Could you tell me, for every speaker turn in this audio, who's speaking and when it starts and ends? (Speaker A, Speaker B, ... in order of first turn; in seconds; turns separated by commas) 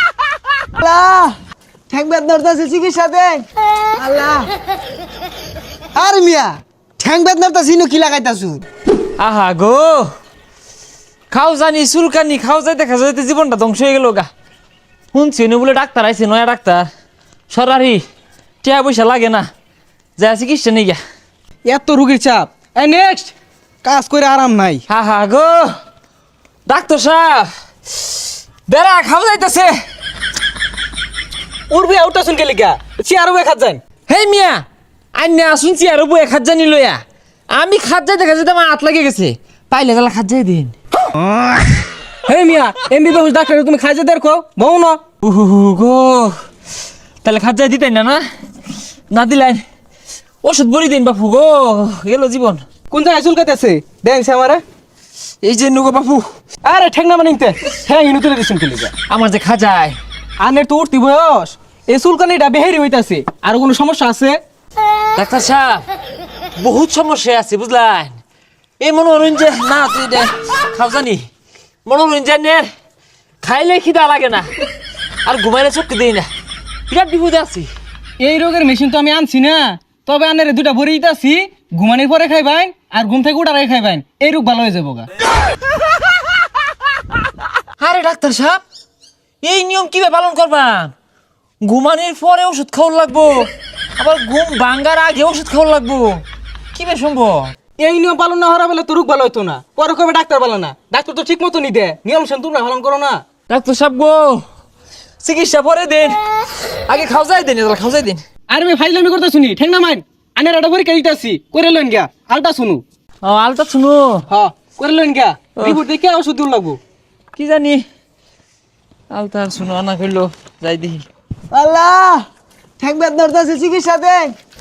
Speaker A: 0.8-1.4, Speaker A: 1.9-3.4, Speaker A: 4.0-4.5, Speaker A: 5.9-8.6, Speaker B: 9.2-10.1, Speaker B: 11.3-14.3, Speaker B: 15.1-16.9, Speaker B: 17.5-18.0, Speaker B: 18.6-19.5, Speaker B: 20.2-21.0, Speaker C: 21.6-24.8, Speaker B: 24.9-25.7, Speaker B: 26.7-29.8, Speaker C: 31.7-33.8, Speaker B: 34.1-34.6, Speaker B: 35.1-40.7, Speaker C: 42.2-45.0, Speaker B: 45.2-46.3, Speaker B: 47.2-48.2, Speaker B: 49.1-49.6, Speaker B: 50.4-52.6, Speaker C: 52.9-54.6, Speaker B: 55.4-56.2, Speaker C: 56.6-58.9, Speaker B: 59.1-60.0, Speaker C: 60.4-64.3, Speaker B: 65.2-65.8, Speaker B: 66.6-68.2, Speaker B: 68.8-71.2, Speaker B: 71.8-72.7, Speaker B: 73.4-74.5, Speaker B: 75.2-76.3, Speaker B: 76.9-77.7, Speaker C: 78.2-85.1, Speaker B: 87.8-88.6, Speaker B: 89.4-90.9, Speaker B: 91.6-96.2, Speaker B: 96.7-97.5, Speaker C: 97.8-103.2, Speaker B: 103.5-104.4, Speaker B: 105.2-106.2, Speaker B: 106.9-108.2, Speaker C: 108.5-112.8, Speaker B: 113.2-114.2, Speaker C: 114.3-116.8, Speaker B: 117.3-117.8, Speaker B: 119.1-121.0, Speaker A: 121.5-122.2, Speaker A: 122.8-124.3